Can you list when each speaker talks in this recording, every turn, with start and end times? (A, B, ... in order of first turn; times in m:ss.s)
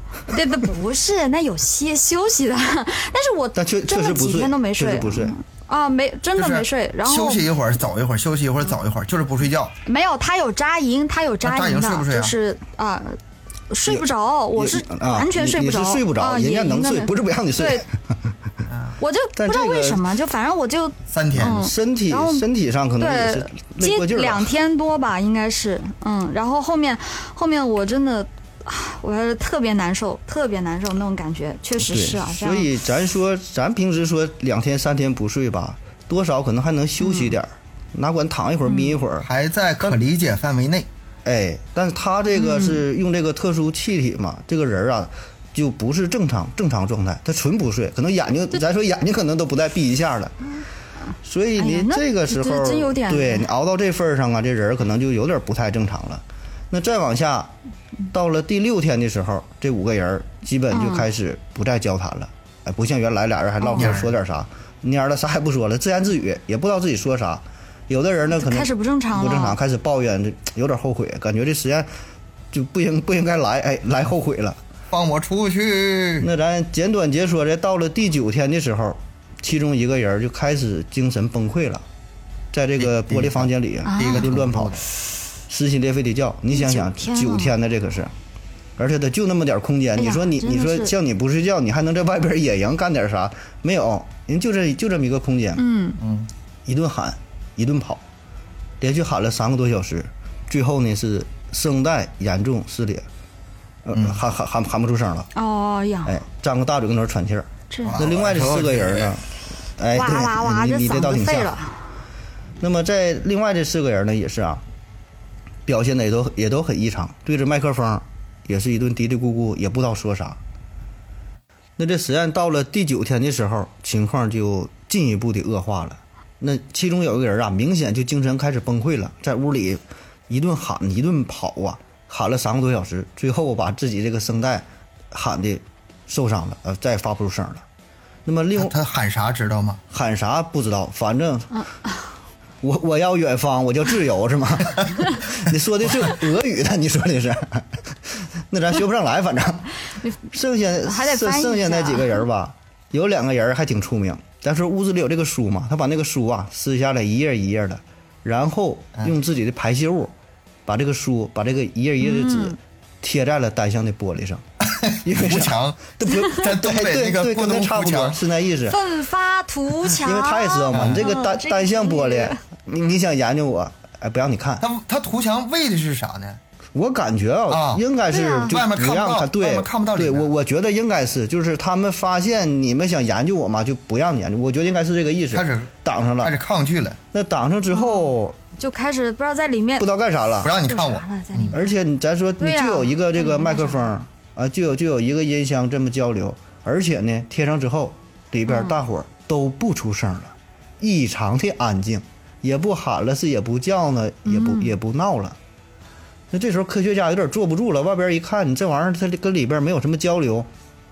0:00.3-0:07.5 A
0:03.6-0:05.3 B
0:06.4-0:09.7 C
0:09.9-0:13.2 A
0:11.4-0:12.3 C
0:13.7-0:17.8 A
0:13.9-0:18.0 B
0:18.7-0:19.0 C
0:19.0-0:22.5 A
0:19.4-0:20.0 B
0:21.1-0:21.6 C
0:21.4-0:24.5 B
0:23.0-0:32.7 A
0:31.8-0:39.3 B
0:37.0-0:37.4 A
0:38.7-0:39.0 A
0:39.2-0:40.9 C
0:41.2-0:50.4 B
0:42.3-0:42.8 A
0:51.2-0:57.5 B
0:51.6-0:53.5 A
0:58.1-1:11.9 B
1:00.7-1:01.1 A
1:03.6-1:04.0 A
1:03.8-1:04.1 C
1:08.3-1:09.6 A
1:12.5-1:14.6 B
1:14.9-1:16.3 C
1:16.2-1:21.8 B
1:22.5-1:24.8 B
1:22.8-1:24.8 C
1:23.8-1:24.3 A
1:25.5-1:28.1 B
1:26.5-1:27.6 A
1:28.8-1:35.6 B
1:30.0-1:30.9 A
1:35.6-1:36.0 A
1:36.0-1:36.3 C
1:36.7-1:38.0 B
1:38.8-1:43.0 B
1:43.8-1:45.3 B
1:45.4-1:46.2 A
1:46.1-1:49.3 B
1:47.7-1:48.0 A
1:47.9-1:49.2 C
1:49.8-1:51.5 B
1:49.9-1:51.8 A
1:52.6-1:54.6 B
1:55.7-2:00.4 B
2:01.8-2:17.6 B
2:18.2-2:18.8 B
2:18.6-2:19.8 C
2:19.9-2:21.6 B
2:22.6-2:40.1 B
2:30.8-2:32.2 A
2:40.7-2:44.4 B
2:42.0-2:42.6 A
2:44.6-2:48.2 C
2:45.0-2:48.8 B
2:46.0-2:46.3 A
2:48.7-2:52.4 A
2:49.9-2:54.6 B
2:50.7-2:51.1 C
2:54.6-2:56.4 C
2:56.8-3:06.3 B
2:57.5-2:57.8 C
2:58.1-2:58.6 A
2:58.5-3:00.3 C
3:05.3-3:07.0 C
3:07.1-3:08.4 B
3:07.7-3:09.9 A
3:09.8-3:10.5 B
3:10.4-3:11.6 C
3:10.6-3:11.8 A
3:11.5-3:25.4 B
3:12.4-3:14.0 A
3:18.5-3:18.8 A
3:24.2-3:24.8 A
3:26.3-3:30.5 B